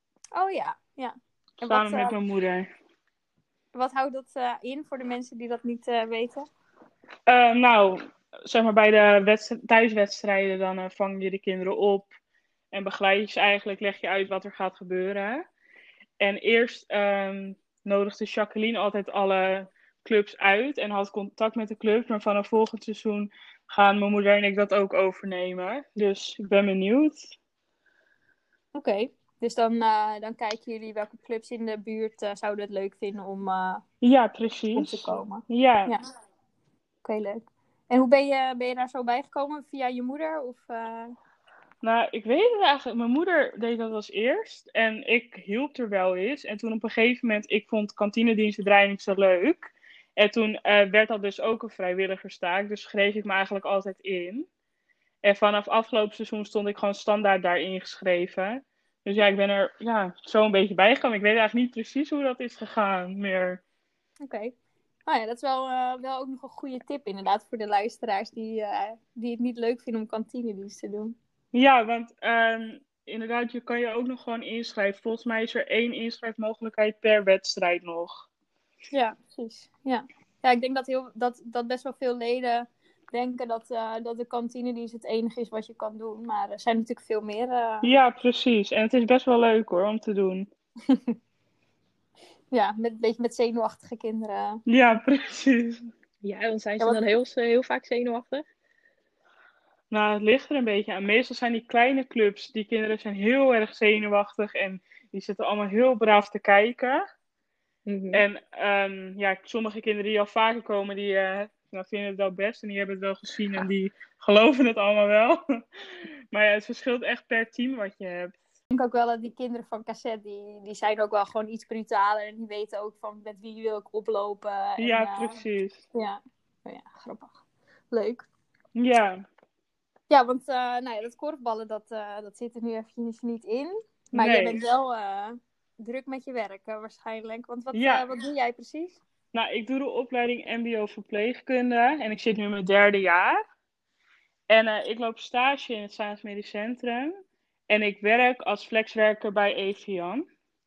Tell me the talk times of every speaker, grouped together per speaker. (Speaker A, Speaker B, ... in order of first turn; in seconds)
Speaker A: 0.3-2.1, 3.7-6.5, 28.7-33.8, 34.7-36.0, 37.0-41.1, 64.2-64.5, 65.1-71.1, 78.9-87.9, 90.9-91.2, 92.5-94.6, 118.7-125.3, 125.9-128.2, 130.1-139.0
Speaker B: 1.6-2.7, 7.3-12.1, 12.7-15.4, 16.2-27.4, 34.0-35.9, 41.8-54.5, 55.2-63.6, 71.5-78.3, 87.8-90.5, 94.7-95.9, 99.9-107.0, 108.1-115.4, 116.0-118.3, 124.8-125.8, 128.7-129.2, 134.1-134.7, 137.7-138.0, 139.3-143.4, 144.5-150.2
Speaker C: 96.2-98.5, 107.8-108.2